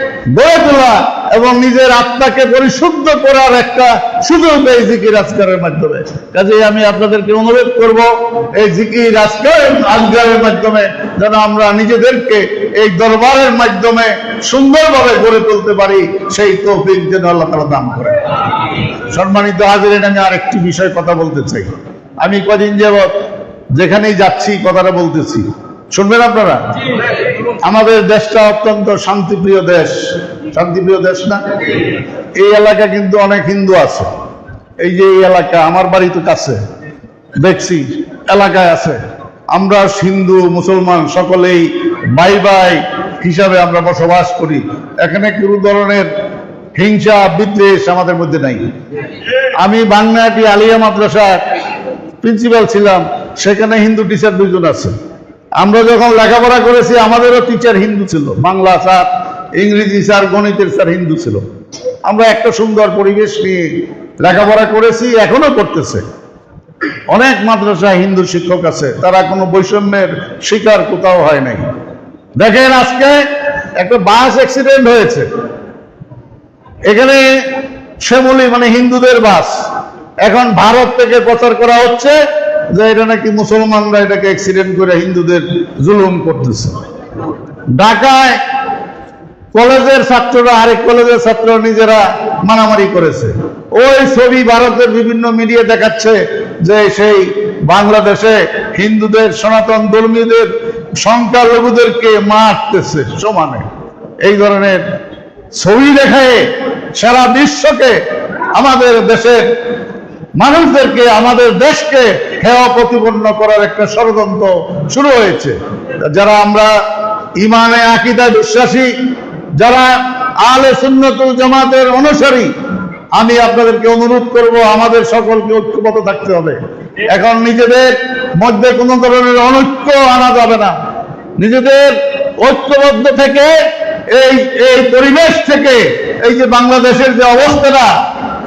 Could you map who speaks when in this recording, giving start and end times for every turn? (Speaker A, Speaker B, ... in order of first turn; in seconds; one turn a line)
Speaker A: 0.3-18.2
Speaker A: 19.1-21.7
Speaker A: 22.2-23.1
Speaker A: 23.8-26.6
Speaker A: 27.6-31.9
Speaker A: 32.4-34.1
Speaker A: 34.8-36.6
Speaker A: 37.4-39.0
Speaker A: 39.5-46.1
Speaker A: 46.8-48.6
Speaker A: 49.6-51.4
Speaker A: 52.2-55.0
Speaker A: 55.6-59.1
Speaker A: 59.6-61.4
Speaker A: 62.1-63.7
Speaker A: 64.2-66.0
Speaker A: 67.1-71.7
Speaker A: 72.4-73.2
Speaker A: 73.8-75.3
Speaker A: 76.9-77.3
Speaker A: 78.0-79.5
Speaker A: 80.2-82.2
Speaker A: 82.8-86.8
Speaker A: 87.8-88.4
Speaker A: 89.5-103.7
Speaker A: 104.2-104.8
Speaker A: 105.6-108.0
Speaker A: 108.5-109.5
Speaker A: 110.4-116.7
Speaker A: 117.4-118.9
Speaker A: 119.6-122.5
Speaker A: 123.2-130.7
Speaker A: 131.4-137.9